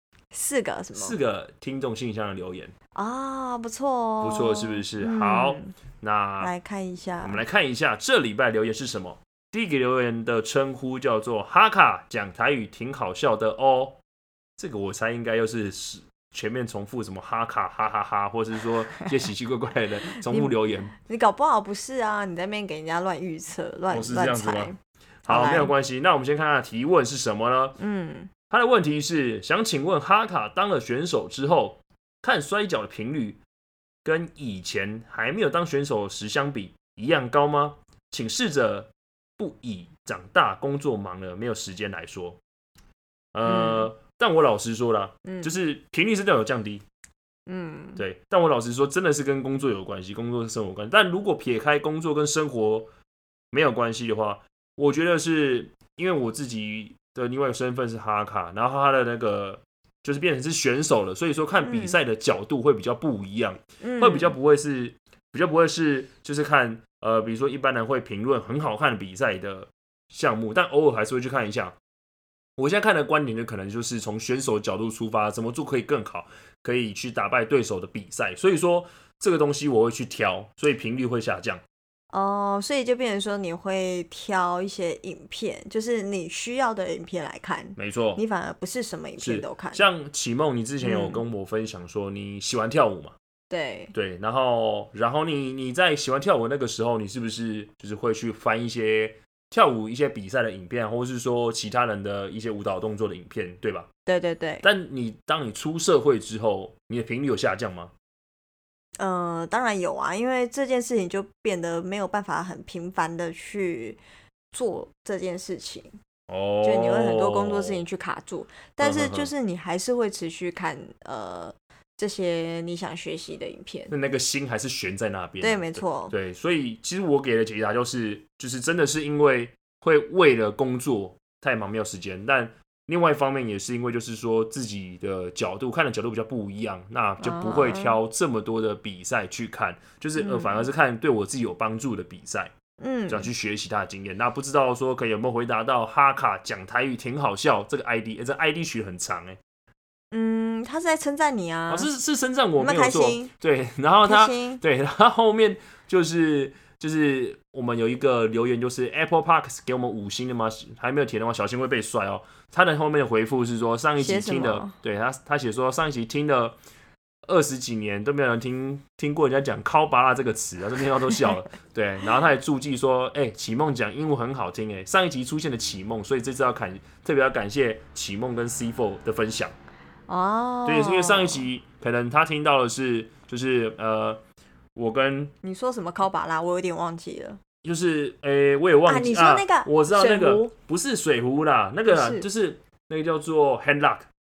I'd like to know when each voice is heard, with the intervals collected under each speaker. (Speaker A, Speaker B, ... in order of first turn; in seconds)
Speaker A: 0.3-1.2, 3.0-5.7, 6.4-7.4, 20.2-25.7, 27.8-28.3, 43.5-43.9, 45.2-45.5, 47.5-48.0, 61.6-62.0, 63.8-64.3, 82.1-89.8, 90.8-91.2, 93.5-93.9, 104.1-104.7, 109.0-114.0, 114.5-116.0, 116.6-123.9, 125.4-126.1, 137.2-138.0, 140.2-140.7, 142.8-143.3, 150.1-151.9, 152.6-153.3, 154.0-154.6, 164.0-164.8, 180.1-181.5, 185.4-187.4, 188.9-190.5, 191.9-192.3
Speaker B: 0.9-2.7, 4.2-6.5, 7.2-14.0, 14.6-20.9, 23.9-24.7, 25.3-27.8, 28.5-33.4, 34.0-42.4, 43.3-46.8, 48.0-52.9, 53.5-71.8, 72.6-81.6, 87.8-88.2, 89.2-93.2, 93.9-103.9, 104.6-107.9, 116.3-117.8, 118.8-119.3, 123.9-142.5, 143.1-149.4, 151.7-166.6, 167.3-179.5, 180.7-184.2, 184.8-185.3, 187.6-194.1